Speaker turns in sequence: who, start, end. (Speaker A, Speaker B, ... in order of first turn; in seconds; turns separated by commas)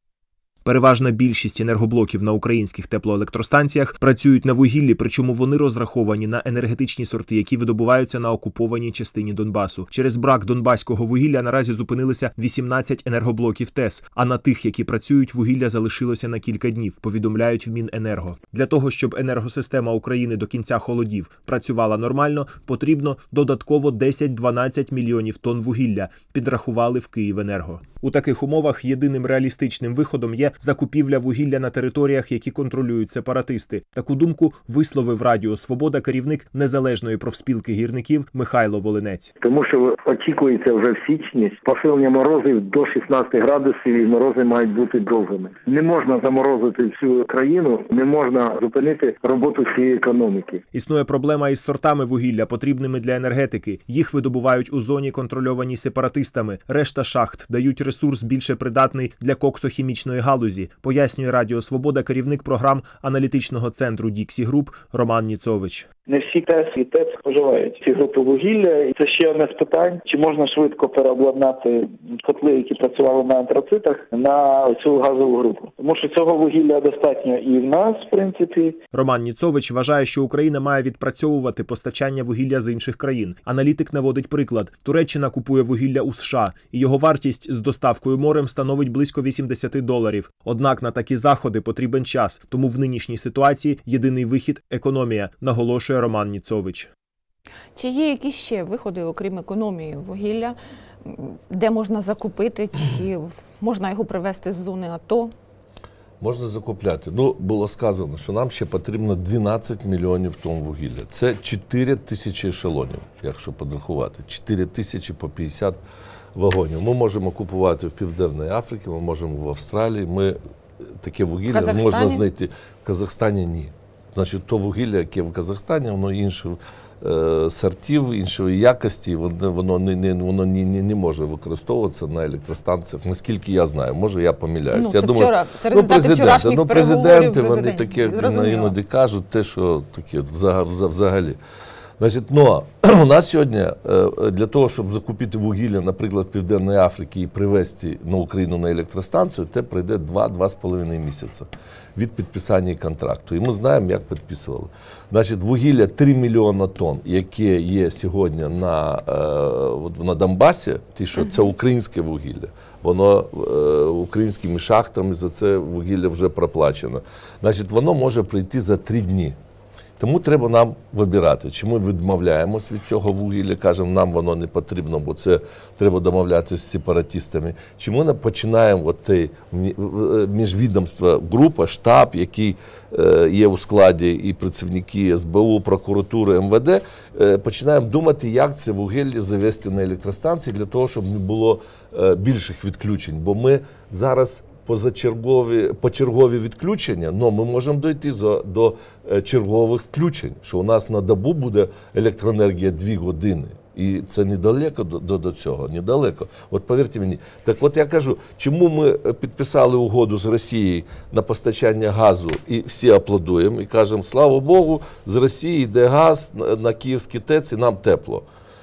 Speaker A: 0.6-39.3, Speaker B: 39.4-50.6, Speaker A: 50.7-65.9, Speaker C: 66.1-78.8, Speaker A: 78.9-96.9, Speaker D: 97.8-105.3, Speaker E: 106.2-115.8, Speaker E: 116.3-141.4, Speaker D: 121.5-122.2, Speaker D: 134.7-138.7, Speaker E: 142.0-169.3, Speaker D: 161.2-161.5, Speaker E: 170.0-218.2